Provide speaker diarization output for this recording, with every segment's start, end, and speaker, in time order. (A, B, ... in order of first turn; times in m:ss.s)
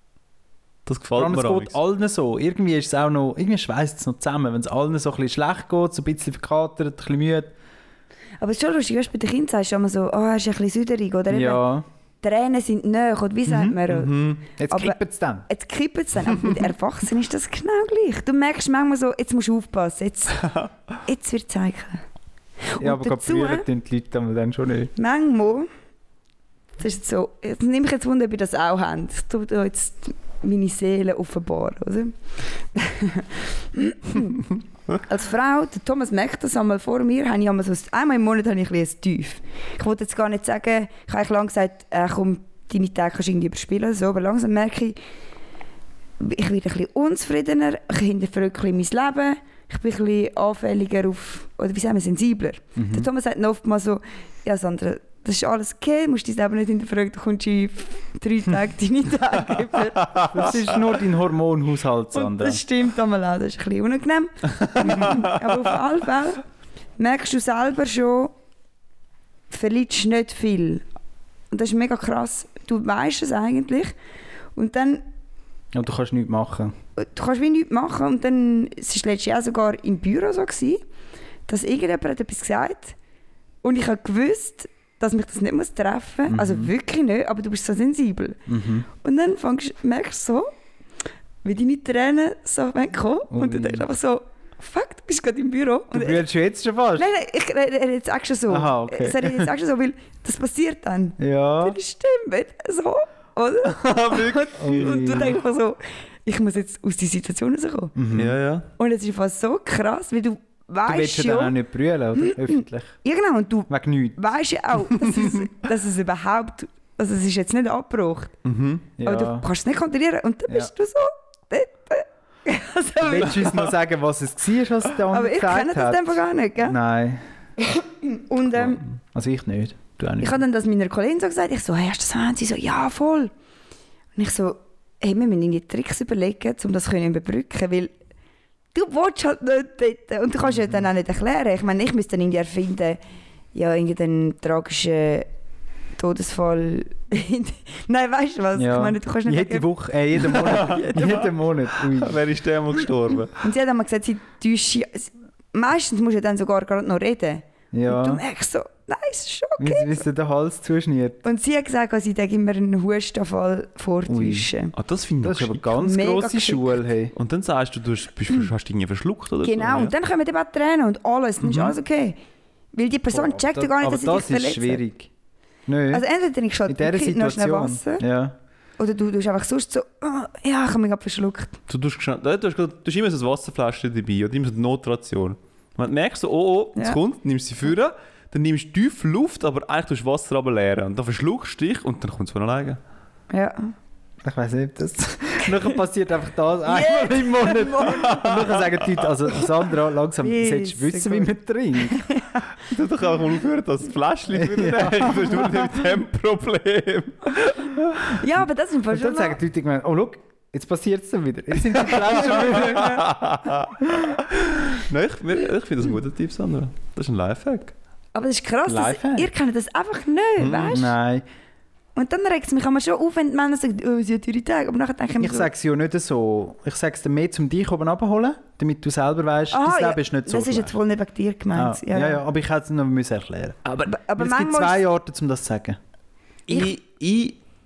0:00.9-0:01.8 A
0:01.2-0:07.5 B
0:08.4-0:11.6 C
0:11.3-0:11.8 B
0:12.2-0:14.1 C
0:13.5-0:13.8 B
0:13.9-0:14.4 A
0:14.6-0:15.5 B
0:14.7-0:20.4 C
0:20.4-0:20.7 A
0:21.1-0:22.0 C
0:22.7-0:23.6 C
0:22.8-0:24.9 B
0:25.0-0:25.7 C
0:26.8-0:45.0 C
0:46.2-1:00.4 C
0:52.8-0:53.1 B
1:00.0-1:00.5 A
1:00.3-1:02.6 B
1:02.1-1:06.4 C
1:04.7-1:05.3 A
1:07.0-1:08.3 C
1:09.5-1:10.8 C
1:11.5-1:13.9 C
1:14.6-1:15.0 C
1:15.7-1:16.8 B
1:17.0-1:20.8 C
1:21.5-1:23.0 C
1:23.6-1:28.4 C
1:26.3-1:26.7 B
1:28.5-1:28.9 B
1:29.0-1:30.5 C
1:31.4-1:36.2 C
1:33.3-1:33.8 B
1:35.9-1:37.1 B
1:37.0-1:47.9 C
1:38.5-1:39.5 B
1:41.2-1:41.8 B
1:43.6-1:45.2 A
1:44.6-1:45.4 B
1:48.0-1:48.4 B
1:48.1-1:48.7 A
1:48.8-1:51.6 C
1:50.9-1:53.0 B
1:52.2-1:58.3 C
1:53.7-1:54.2 B
1:58.4-1:58.9 A
1:59.0-1:59.5 B
1:59.0-2:03.7 C
2:03.0-2:07.2 B
2:05.1-2:06.8 C
2:07.6-2:08.8 C
2:08.6-2:10.4 B
2:10.2-2:13.3 C
2:14.2-2:17.9 C
2:18.7-2:23.0 C
2:23.5-2:25.3 C
2:26.0-2:31.2 C
2:28.6-2:32.2 B
2:30.4-2:33.4 A
2:33.4-2:40.0 C
2:37.7-2:38.2 B
2:39.6-2:41.2 B
2:41.2-2:44.7 C
2:44.1-2:44.5 B
2:44.8-2:45.7 A
2:45.2-2:47.2 B
2:45.8-2:46.8 C
2:47.2-2:49.9 A
2:49.4-2:52.2 C
2:52.7-2:54.8 C
2:53.1-2:55.1 B
2:55.7-2:56.0 B
2:55.9-2:58.0 C
2:56.7-2:58.4 B
2:58.8-3:01.6 C
3:01.7-3:12.8 A
3:13.3-3:13.7 C
3:14.2-3:22.0 B
3:16.7-3:18.2 C
3:18.0-3:19.1 A
3:20.2-3:21.3 C
3:21.9-3:22.5 C
3:22.7-3:28.1 A
3:24.3-3:25.7 B
3:27.9-3:29.4 C
3:28.9-3:33.0 B
3:31.7-3:37.7 A
3:32.5-3:32.9 C
3:38.2-3:40.9 C
3:38.7-3:39.3 B
3:40.4-3:40.9 A
3:40.7-3:41.2 B
3:42.0-3:45.5 C
3:45.2-3:50.8 B
3:49.5-3:52.2 C
3:51.5-3:55.8 B
3:53.8-3:54.8 C
3:56.5-3:57.4 A